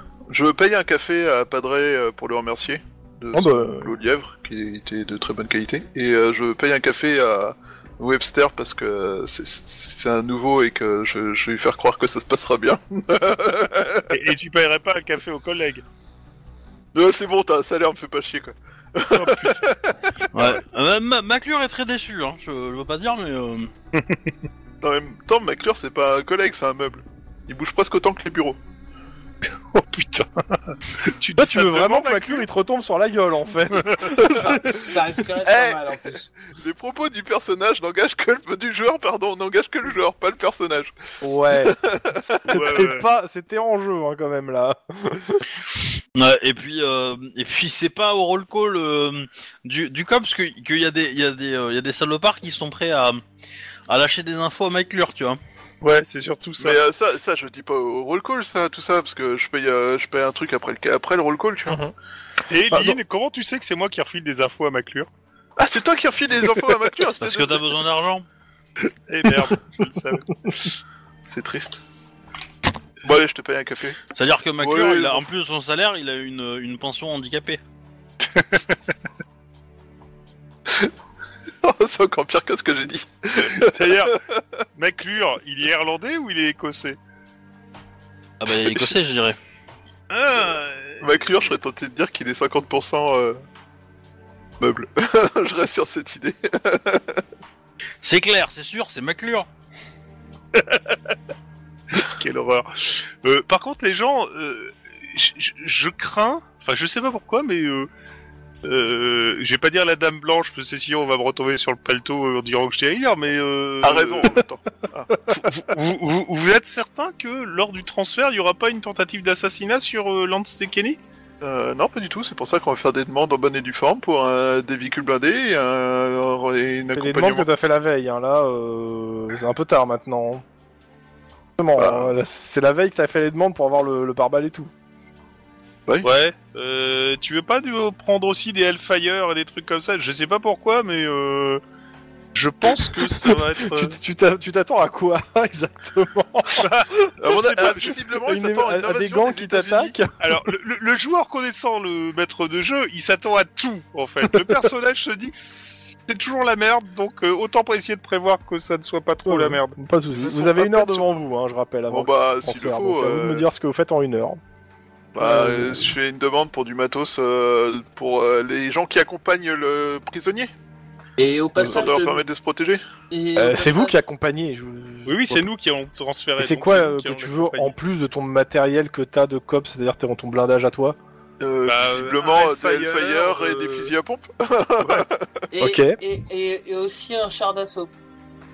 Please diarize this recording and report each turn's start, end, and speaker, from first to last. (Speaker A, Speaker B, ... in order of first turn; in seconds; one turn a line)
Speaker A: 0.3-14.2
Speaker B: 3.3-3.9
Speaker C: 14.1-15.8
Speaker A: 16.9-20.1
Speaker C: 19.1-19.7
Speaker D: 20.3-23.7
Speaker C: 23.9-24.3
Speaker A: 24.8-28.6
Speaker C: 29.7-32.5
Speaker B: 31.4-35.0
Speaker C: 33.8-34.1
Speaker A: 34.2-34.5
Speaker E: 34.5-36.4
Speaker A: 35.4-35.9
Speaker A: 36.5-41.0
Speaker B: 41.2-41.8
Speaker A: 41.5-42.9
Speaker B: 42.3-45.4
Speaker C: 42.5-43.1
Speaker D: 46.1-53.2
Speaker D: 53.9-55.4
Speaker C: 55.8-56.8
Speaker A: 56.6-61.8
Speaker B: 61.7-61.9
Speaker C: 62.5-65.1
Speaker B: 62.7-63.0
Speaker A: 65.6-67.8
Speaker D: 67.2-68.3
Speaker C: 69.1-70.7
Speaker A: 71.2-71.8
Speaker A: 73.0-74.0
Speaker D: 74.2-77.6
Speaker A: 74.6-75.3
Speaker C: 78.3-78.7
Speaker A: 80.7-80.9
Speaker A: 81.6-84.4
Speaker C: 83.6-84.2
Speaker C: 84.8-87.0
Speaker D: 88.4-89.4
Speaker C: 90.1-91.2
Speaker A: 91.0-93.4
Speaker A: 94.6-97.2
Speaker D: 98.0-99.5
Speaker C: 100.5-101.2
Speaker C: 101.9-107.9
Speaker C: 108.6-114.4
Speaker A: 113.8-115.1
Speaker C: 115.3-121.0
Speaker A: 121.4-127.5
Speaker B: 127.0-130.4
Speaker B: 131.6-134.7
Speaker A: 131.8-132.1
Speaker C: 136.0-141.6
Speaker C: 142.3-144.0
Speaker B: 143.2-147.1
Speaker C: 146.5-148.0
Speaker A: 147.2-149.9
Speaker B: 148.2-150.1
Speaker C: 150.2-159.8
Speaker B: 159.3-164.4
Speaker A: 160.2-161.1
Speaker A: 161.9-163.5
Speaker A: 165.1-170.5
Speaker B: 165.2-165.9
Speaker E: 171.2-172.2
Speaker A: 171.6-172.8
Speaker E: 173.1-174.0
Speaker B: 173.4-175.5
Speaker C: 175.1-177.7
Speaker B: 176.4-181.0
Speaker A: 181.4-185.5
Speaker C: 181.7-183.9
Speaker E: 185.5-187.9
Speaker B: 185.6-186.0